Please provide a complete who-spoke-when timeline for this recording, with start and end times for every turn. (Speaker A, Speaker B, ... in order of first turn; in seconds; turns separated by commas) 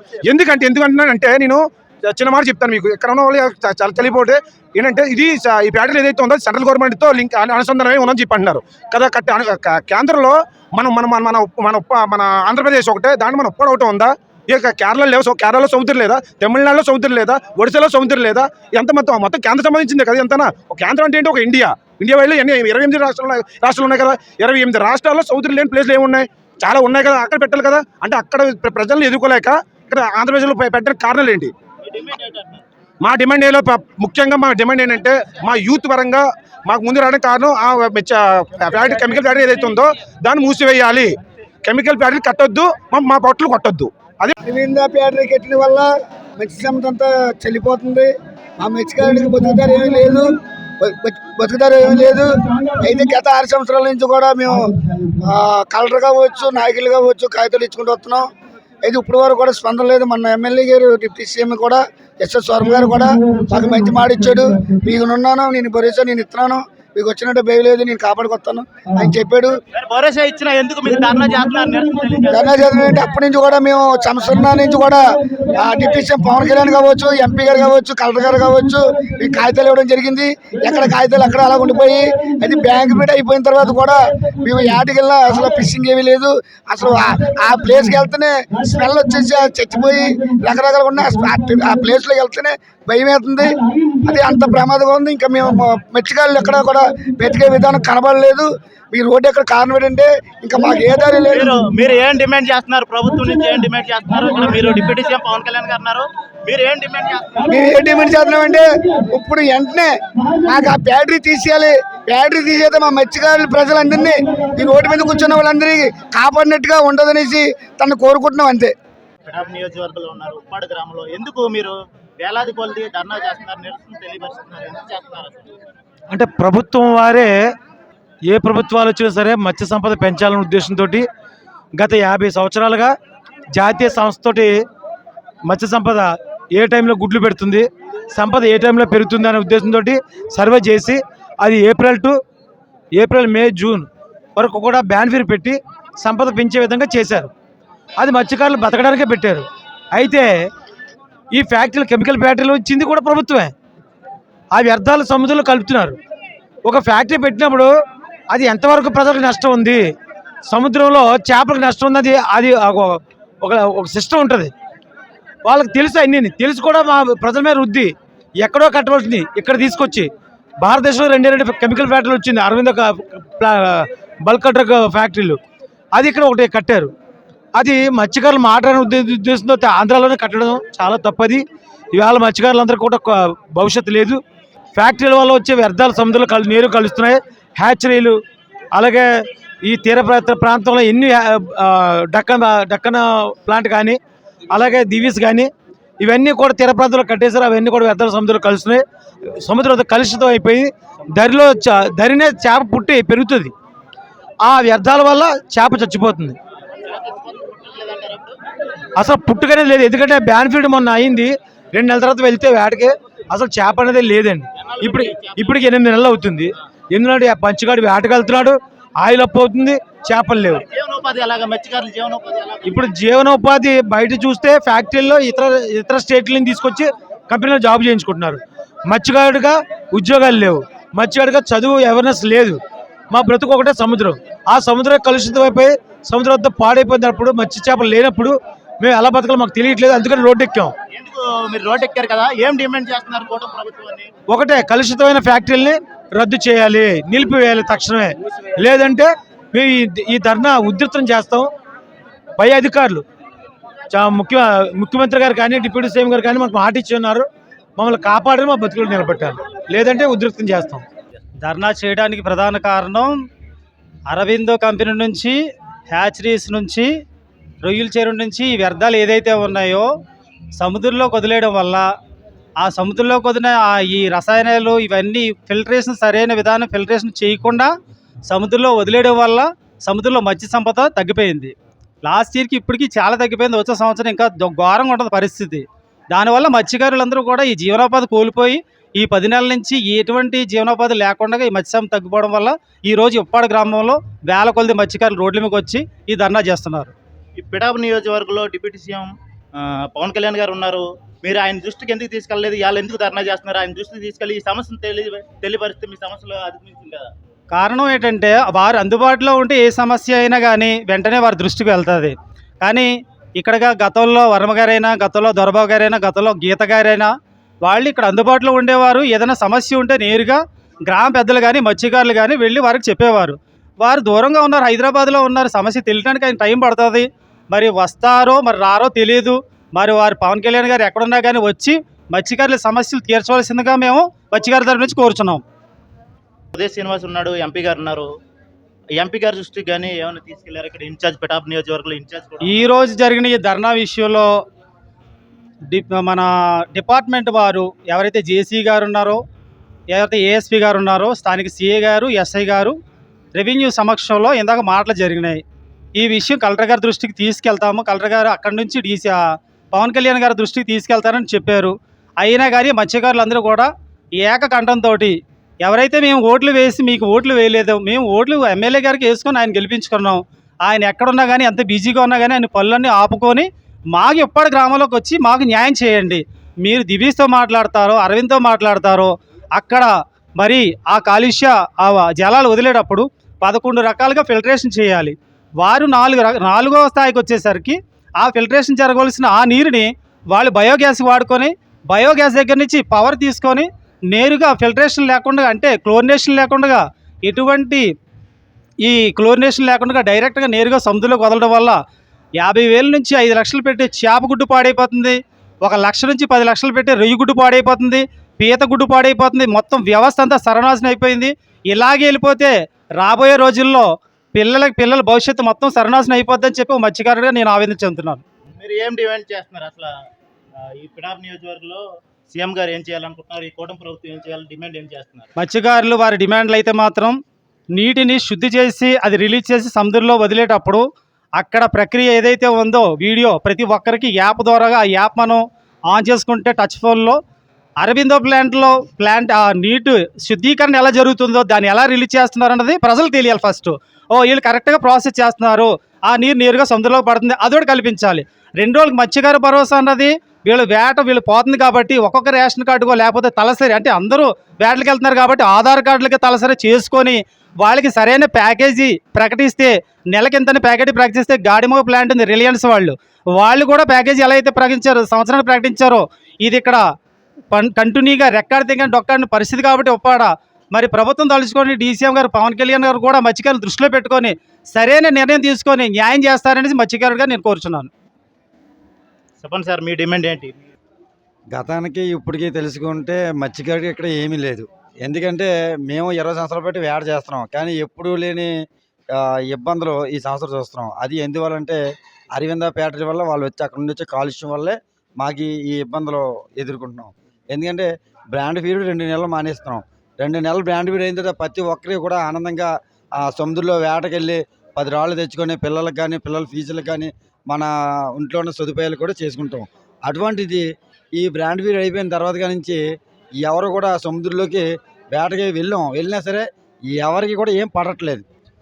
Speaker A: 0.2-31.5, Speaker B: 31.8-32.6, Speaker A: 33.0-41.1, Speaker A: 41.6-44.3, Speaker C: 44.4-45.9, Speaker C: 46.4-58.3, Speaker C: 58.8-69.6, Speaker B: 69.7-72.6, Speaker C: 72.3-101.6, Speaker B: 101.3-107.7, Speaker C: 107.5-118.7, Speaker B: 119.2-125.5, Speaker D: 126.1-127.3, Speaker D: 128.3-131.1, Speaker D: 131.8-132.9, Speaker D: 133.5-134.6, Speaker D: 135.5-142.2, Speaker D: 142.9-147.3, Speaker D: 148.0-150.5, Speaker D: 151.3-153.5, Speaker D: 154.5-156.0, Speaker D: 156.7-157.7, Speaker D: 158.3-159.9, Speaker D: 160.5-164.5, Speaker D: 165.4-170.1, Speaker D: 170.6-175.4, Speaker D: 175.9-176.9, Speaker D: 177.6-181.4, Speaker D: 181.9-184.2, Speaker D: 184.8-188.2, Speaker D: 188.7-189.1, Speaker D: 189.6-194.0, Speaker D: 194.5-198.8, Speaker D: 199.4-203.5, Speaker D: 204.4-206.4, Speaker B: 206.8-208.3, Speaker D: 209.0-220.6, Speaker B: 214.6-215.6, Speaker B: 220.5-222.9, Speaker D: 222.6-232.6, Speaker D: 233.1-240.7, Speaker B: 240.9-244.1, Speaker D: 244.3-251.5, Speaker D: 252.4-253.0, Speaker D: 253.9-260.8, Speaker E: 261.4-263.1, Speaker E: 264.1-265.4, Speaker E: 265.9-266.9, Speaker E: 267.6-269.9, Speaker E: 270.6-271.9, Speaker E: 272.6-277.7, Speaker E: 278.3-296.9, Speaker B: 297.4-307.1, Speaker E: 307.5-335.4, Speaker B: 336.5-338.1, Speaker B: 339.0-342.6, Speaker E: 342.4-344.3, Speaker E: 345.7-349.2, Speaker E: 349.9-352.8, Speaker E: 353.3-355.4, Speaker E: 356.0-359.2, Speaker E: 359.7-397.8, Speaker E: 398.8-401.8, Speaker E: 402.4-418.2, Speaker B: 418.5-419.9, Speaker B: 420.6-425.3, Speaker E: 425.4-427.2, Speaker E: 427.7-430.9, Speaker E: 431.4-437.2, Speaker E: 437.8-466.8, Speaker E: 467.5-477.9, Speaker B: 479.4-480.6, Speaker F: 481.5-488.5, Speaker F: 489.1-491.8, Speaker F: 492.3-510.6, Speaker F: 511.2-512.8, Speaker F: 513.4-518.3